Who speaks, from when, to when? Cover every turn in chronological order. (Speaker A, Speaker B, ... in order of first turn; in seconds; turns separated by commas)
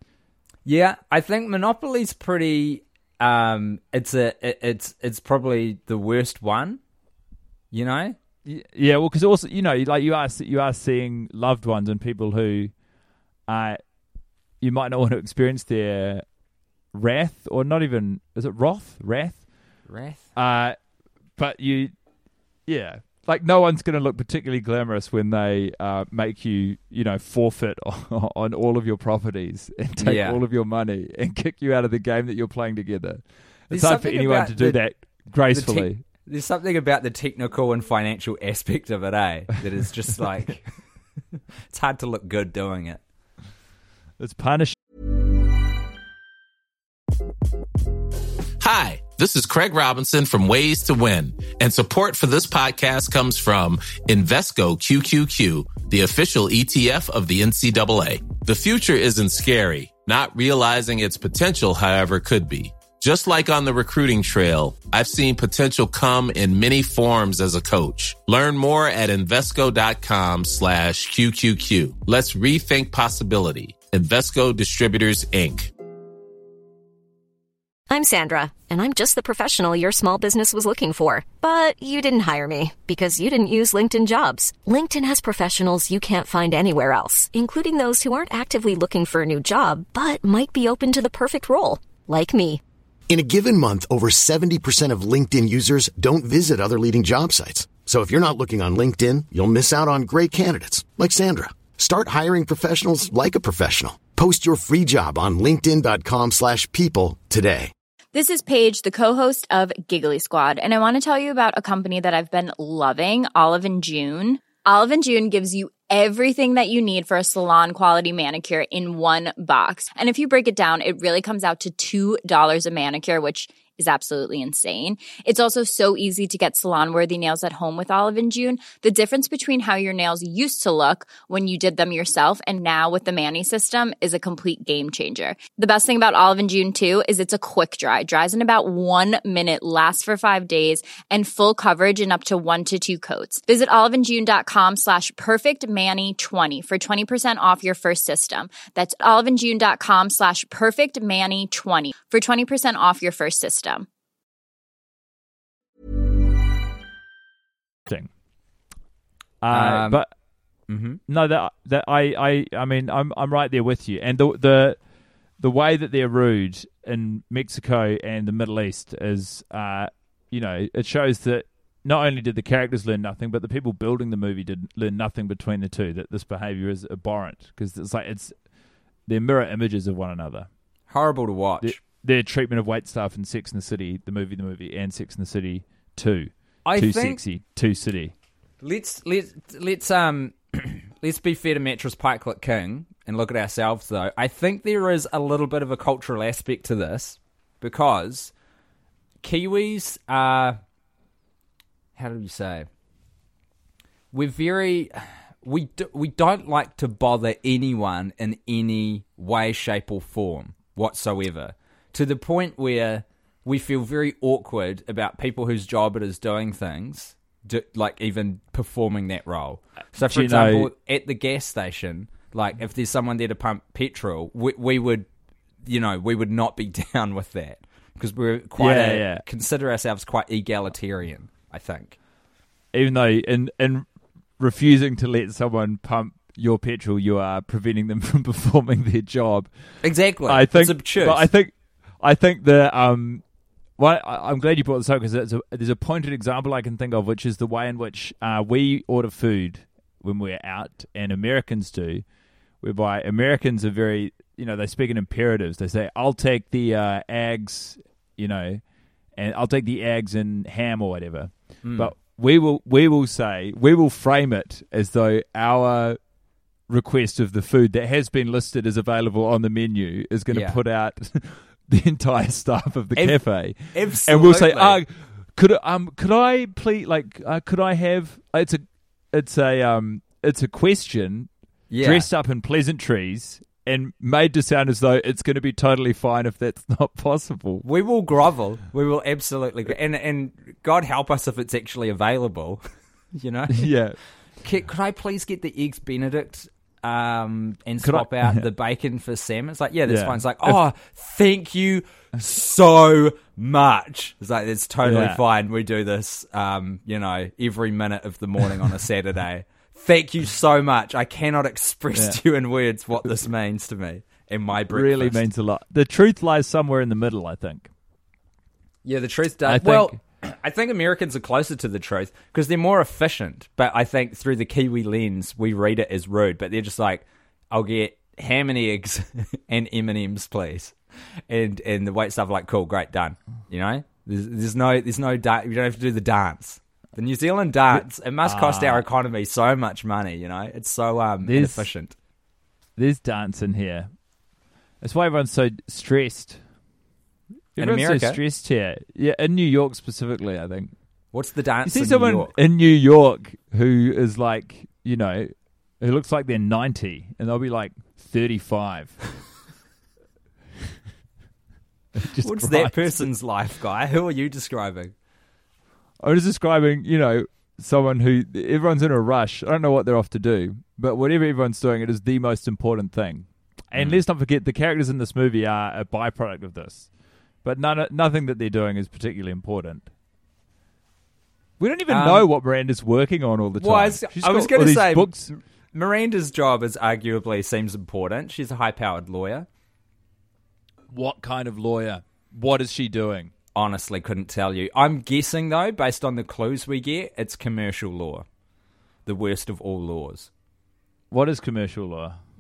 Speaker A: 0.7-6.8, Speaker A: 7.7-8.2, Speaker B: 8.5-12.7, Speaker B: 13.5-13.8, Speaker B: 14.6-16.2, Speaker B: 16.9-19.4, Speaker A: 19.9-20.3, Speaker B: 20.4-20.8, Speaker B: 21.4-21.9, Speaker B: 22.7-36.0, Speaker A: 30.0-30.4, Speaker A: 33.7-34.9, Speaker A: 35.5-40.8, Speaker A: 41.7-43.0, Speaker B: 44.2-44.8, Speaker C: 48.6-75.7, Speaker D: 77.9-92.6, Speaker E: 93.1-107.7, Speaker F: 108.1-153.9, Speaker B: 159.4-160.1, Speaker A: 159.5-160.0, Speaker A: 160.7-161.0, Speaker B: 161.1-164.8, Speaker B: 165.4-178.3, Speaker B: 179.1-180.5, Speaker A: 180.9-181.8, Speaker B: 181.6-188.1, Speaker A: 186.7-187.2, Speaker A: 188.6-198.3, Speaker A: 199.2-200.6, Speaker A: 202.0-202.7, Speaker A: 204.1-225.1, Speaker B: 220.0-220.7, Speaker A: 225.7-232.0, Speaker B: 228.6-229.2, Speaker B: 232.7-233.9, Speaker B: 234.4-239.5, Speaker A: 239.8-241.3, Speaker B: 240.3-243.2, Speaker B: 243.8-252.0, Speaker B: 252.6-258.6, Speaker B: 259.2-266.0, Speaker A: 261.6-261.9, Speaker B: 266.7-281.3, Speaker A: 270.3-270.6, Speaker A: 273.0-274.8, Speaker A: 281.7-282.1, Speaker B: 281.8-287.7, Speaker A: 287.6-292.6, Speaker A: 293.1-293.7, Speaker B: 293.5-294.0, Speaker A: 294.4-315.2, Speaker B: 297.8-298.4, Speaker B: 299.9-300.6, Speaker B: 304.8-305.2, Speaker B: 311.9-312.2, Speaker B: 314.7-317.7, Speaker A: 318.9-330.8, Speaker B: 319.5-320.0, Speaker A: 331.3-341.9, Speaker B: 337.7-338.8, Speaker B: 341.2-341.7, Speaker B: 342.8-343.9, Speaker B: 344.8-346.4, Speaker B: 347.6-350.7, Speaker A: 347.6-348.2, Speaker A: 351.1-352.4, Speaker B: 351.6-359.0, Speaker B: 361.9-363.1, Speaker A: 362.2-364.9, Speaker B: 366.0-376.9, Speaker A: 373.7-374.0, Speaker B: 377.4-379.9, Speaker B: 381.6-385.3, Speaker A: 381.9-382.3, Speaker A: 383.6-389.5, Speaker B: 390.9-393.3, Speaker A: 393.6-398.2, Speaker A: 399.1-400.3, Speaker B: 401.1-402.2